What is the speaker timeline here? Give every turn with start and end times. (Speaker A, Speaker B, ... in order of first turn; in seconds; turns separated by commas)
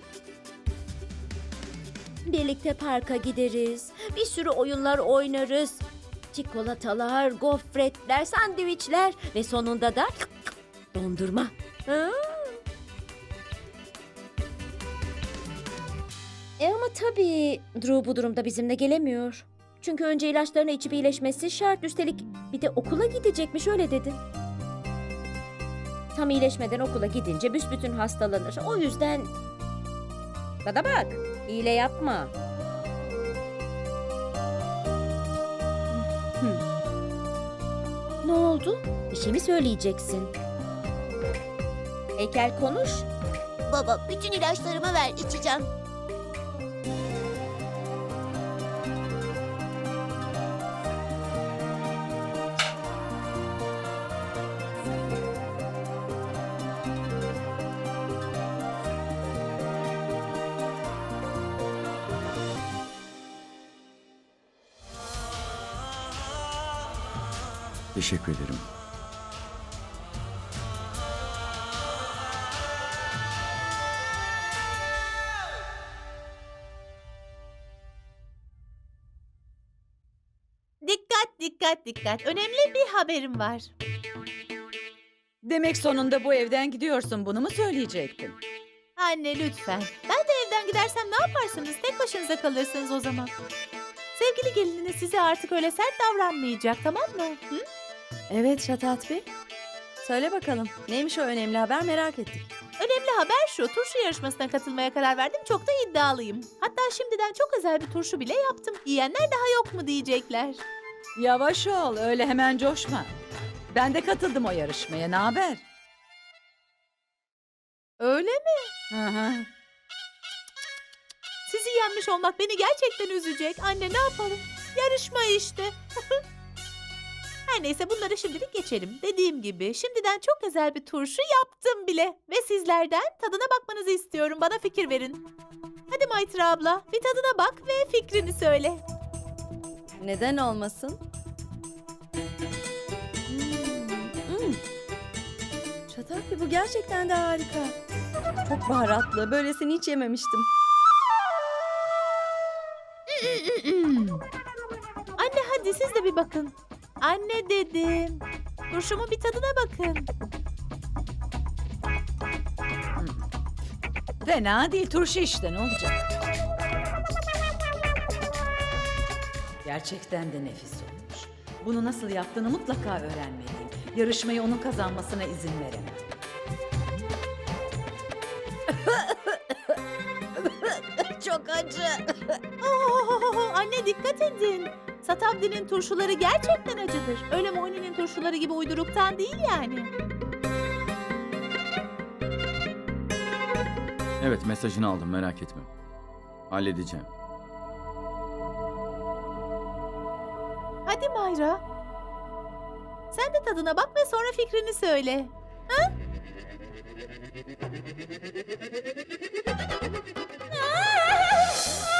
Speaker A: 2.2-12.6, Speaker A: 16.6-24.2, Speaker A: 26.1-29.3, Speaker A: 30.6-32.3, Speaker A: 35.9-36.6, Speaker A: 38.2-40.3, Speaker A: 42.2-43.1, Speaker B: 43.7-45.7, Speaker C: 67.9-68.7, Speaker D: 80.8-83.7, Speaker E: 85.4-88.4, Speaker D: 89.0-93.3, Speaker D: 94.1-97.7, Speaker F: 98.3-99.3, Speaker F: 100.0-102.5, Speaker D: 102.8-110.6, Speaker E: 111.2-113.1, Speaker E: 113.7-115.6, Speaker D: 118.0-118.7, Speaker E: 118.9-119.5, Speaker D: 121.5-126.2, Speaker D: 127.5-135.2, Speaker D: 135.9-138.8, Speaker F: 140.0-141.0, Speaker F: 143.3-144.6, Speaker F: 145.9-147.8, Speaker F: 148.4-150.5, Speaker D: 153.1-154.2, Speaker D: 155.2-160.1, Speaker E: 163.0-163.2, Speaker E: 164.2-166.1, Speaker E: 169.6-176.1, Speaker F: 181.1-182.0, Speaker D: 182.6-189.9, Speaker C: 194.2-195.7, Speaker C: 196.5-197.1, Speaker D: 200.9-201.6, Speaker D: 203.1-205.9, Speaker A: 210.5-211.5